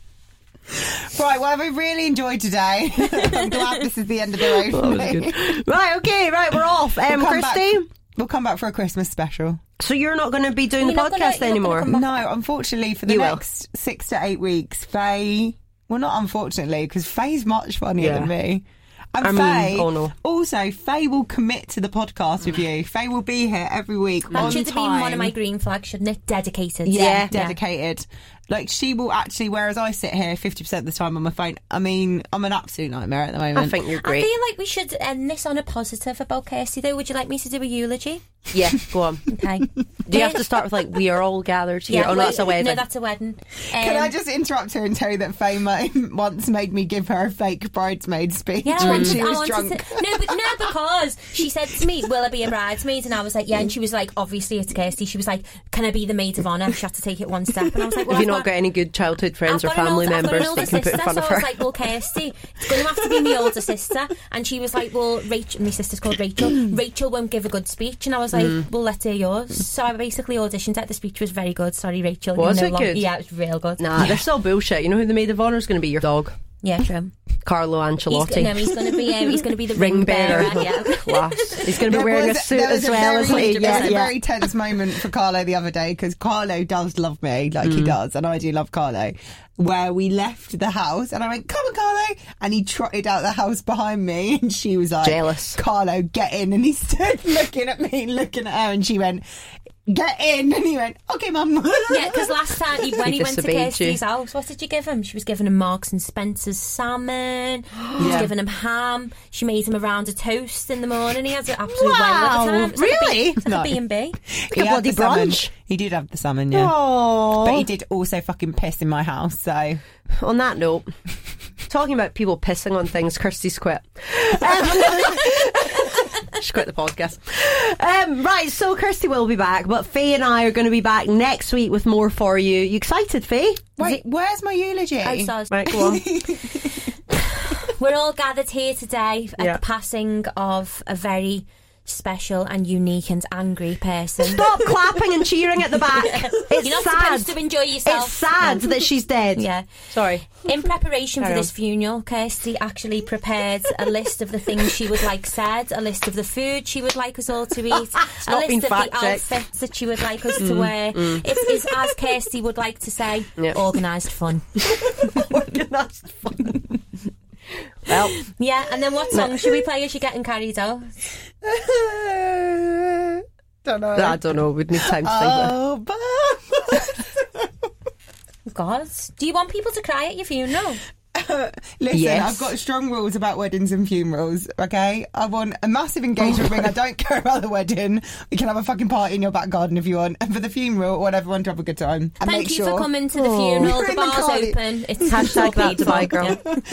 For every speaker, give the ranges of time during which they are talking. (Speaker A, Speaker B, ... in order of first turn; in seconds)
Speaker A: 0.7-5.6, 7.0-9.6, 11.8-25.3, 26.9-33.8, 43.7-50.7, 81.7-99.2, 99.9-103.0, 108.0-108.3, 113.4-119.8, 124.5-125.3, 133.8-136.9, 171.4-177.7, 181.1-192.9, 193.6-196.6
Speaker B: 3.1-3.9, 10.8-12.3, 24.3-27.6, 33.9-38.4, 39.3-40.5, 41.9-44.1, 48.6-58.5, 59.5-73.9, 76.6-77.1, 78.1-81.8, 83.3-84.0, 101.9-114.2, 135.0-144.7, 146.0-149.7, 150.3-165.2, 168.2-171.0, 178.5-180.8, 192.2-196.5
Speaker C: 4.7-7.9, 9.8-11.9, 13.1-13.4, 18.0-18.3, 19.2-20.1, 26.9-27.3, 33.5-34.3, 38.5-39.3, 40.1-42.8, 48.8-49.2, 58.1-61.7, 68.3-68.7, 72.4-73.1, 73.8-76.4, 77.4-84.2, 87.6-88.0, 95.0-95.6, 103.0-104.0, 107.9-108.3, 111.7-113.5, 114.5-115.5, 116.5-117.7, 120.2-120.9, 121.7-133.6, 135.5-136.0, 144.2-147.3, 147.8-150.5, 151.2-151.5, 157.7-159.3, 160.4-161.9, 164.6-166.6, 167.9-168.2, 173.9-175.6, 181.9-182.5, 193.1-193.7, 195.0-196.4